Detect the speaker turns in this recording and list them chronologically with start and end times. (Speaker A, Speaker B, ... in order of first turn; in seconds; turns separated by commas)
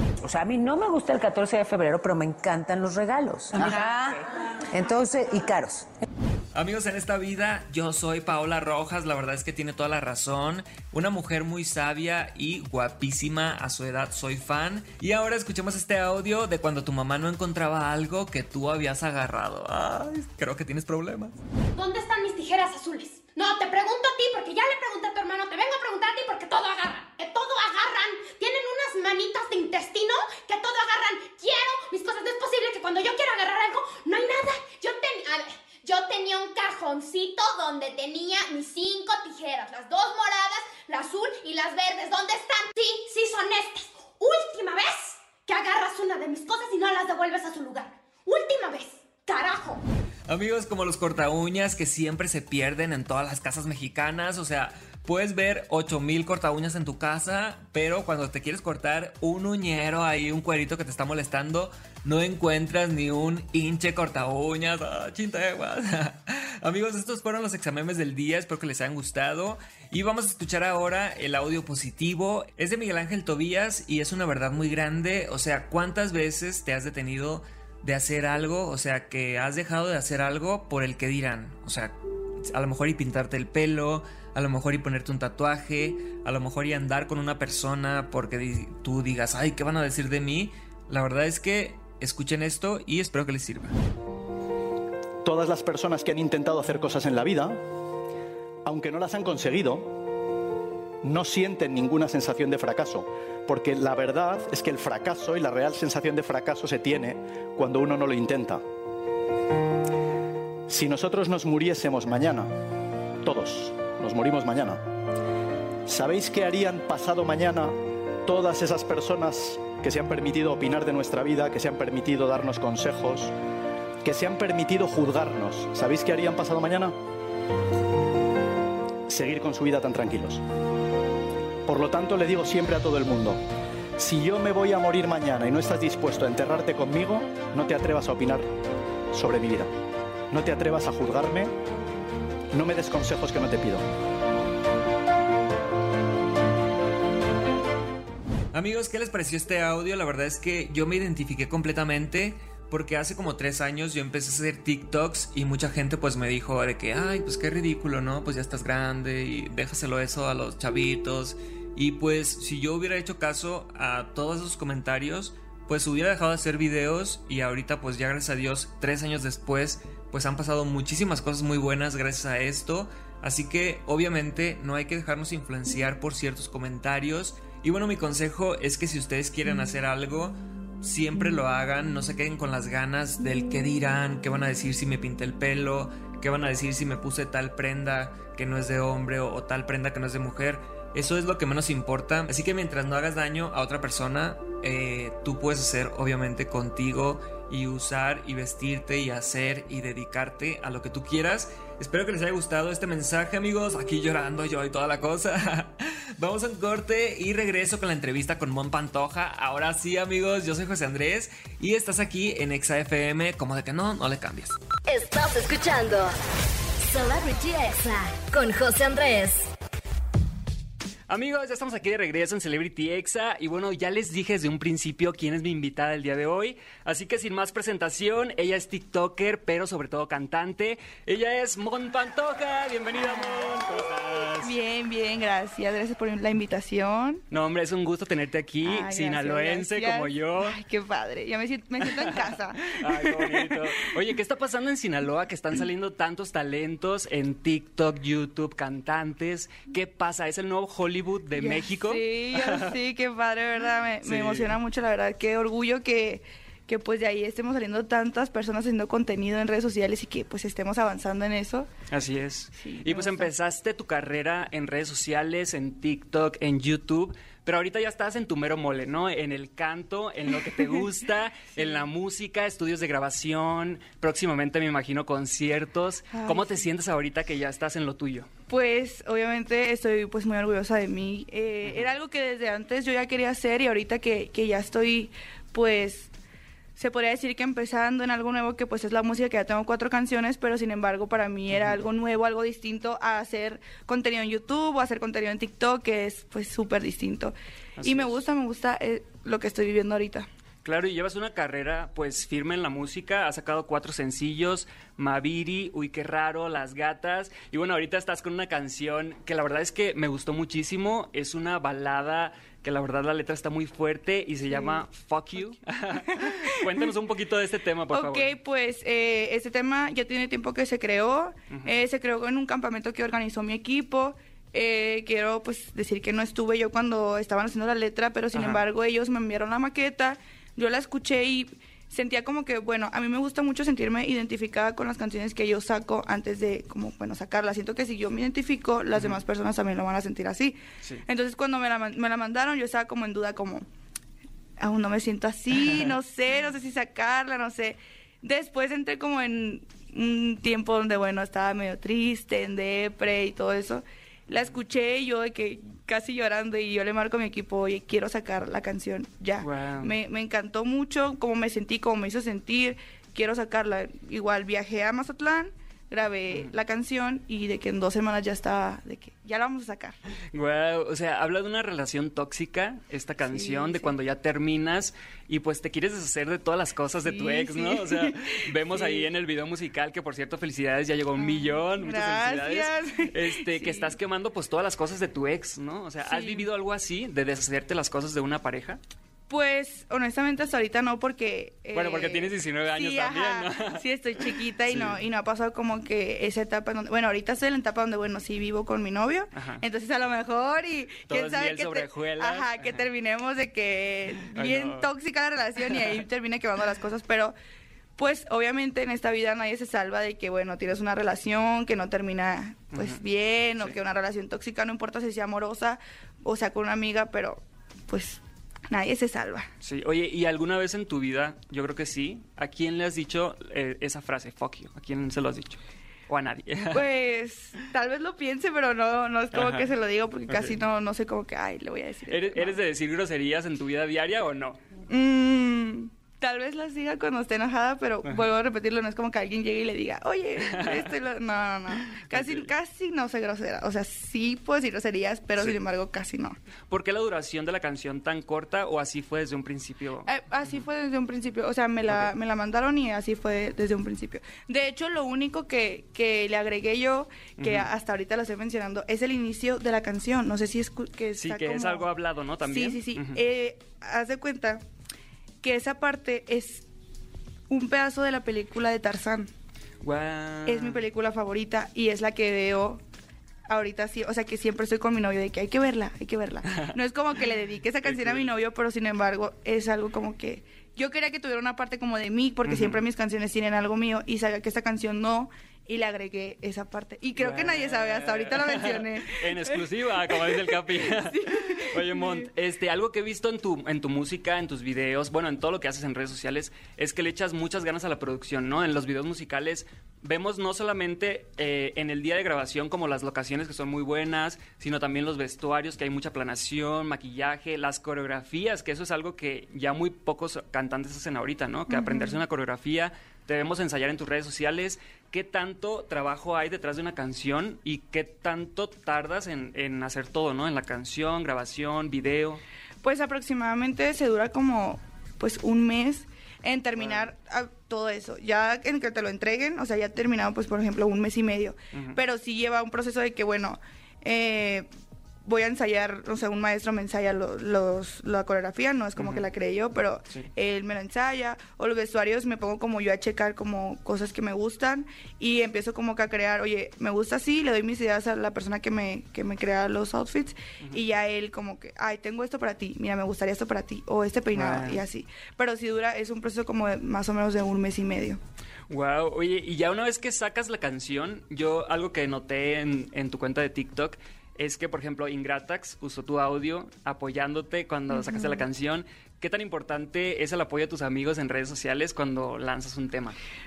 Speaker A: 0.2-5.9, Speaker B: 6.5-21.4, Speaker C: 21.7-49.8, Speaker B: 50.3-81.9, Speaker B: 82.5-93.7, Speaker D: 95.2-97.6, Speaker D: 98.6-99.9, Speaker D: 101.0-108.6, Speaker D: 110.7-112.5, Speaker D: 113.2-114.8, Speaker D: 115.8-123.3, Speaker D: 124.0-127.0, Speaker D: 129.1-130.4, Speaker D: 131.7-133.4, Speaker D: 134.0-138.5, Speaker D: 139.1-139.7, Speaker D: 140.3-141.5, Speaker D: 142.5-143.8, Speaker B: 148.5-214.6, Speaker E: 214.9-216.1, Speaker E: 216.8-219.5, Speaker F: 221.1-234.5, Speaker G: 233.1-233.6, Speaker G: 234.4-237.2, Speaker F: 237.3-240.6, Speaker G: 238.6-243.7, Speaker F: 241.8-252.8, Speaker G: 251.4-261.7, Speaker F: 254.0-254.6, Speaker F: 261.9-278.3, Speaker G: 262.6-263.3, Speaker G: 271.6-271.8, Speaker G: 276.1-276.7, Speaker G: 278.5-286.1, Speaker G: 286.8-300.3, Speaker F: 291.5-291.8, Speaker F: 297.8-298.1, Speaker F: 300.6-318.3, Speaker G: 314.5-314.8, Speaker G: 315.9-316.7, Speaker G: 317.9-343.6, Speaker F: 328.3-328.6, Speaker G: 344.6-370.0, Speaker F: 359.4-359.9, Speaker F: 370.3-388.8, Speaker G: 373.2-373.9, Speaker G: 377.1-379.1, Speaker G: 381.2-383.9, Speaker G: 386.0-386.5, Speaker G: 389.3-407.3, Speaker F: 391.7-395.0, Speaker F: 399.3-399.6, Speaker F: 401.1-402.8, Speaker F: 404.3-404.9, Speaker F: 405.6-406.0, Speaker G: 408.0-419.5, Speaker F: 412.7-413.0, Speaker F: 419.6-426.8, Speaker G: 426.7-432.6, Speaker F: 429.3-429.7, Speaker F: 430.3-430.6, Speaker F: 432.1-434.6, Speaker G: 434.9-446.4, Speaker F: 440.4-440.9, Speaker F: 441.9-442.5, Speaker F: 446.7-450.6, Speaker G: 450.1-461.9, Speaker F: 457.4-457.7, Speaker F: 461.1-463.2, Speaker G: 462.4-464.6, Speaker G: 465.4-466.6, Speaker G: 467.5-469.3, Speaker F: 469.8-470.8, Speaker G: 470.4-472.8, Speaker G: 473.5-492.3, Speaker F: 477.8-478.3, Speaker F: 482.4-482.8, Speaker F: 487.1-522.4, Speaker G: 511.7-512.2, Speaker G: 522.8-534.7, Speaker F: 526.8-527.1, Speaker F: 531.7-532.0, Speaker G: 535.2-558.2, Speaker F: 539.0-539.2, Speaker F: 554.3-554.8, Speaker F: 558.7-573.2, Speaker G: 567.9-568.5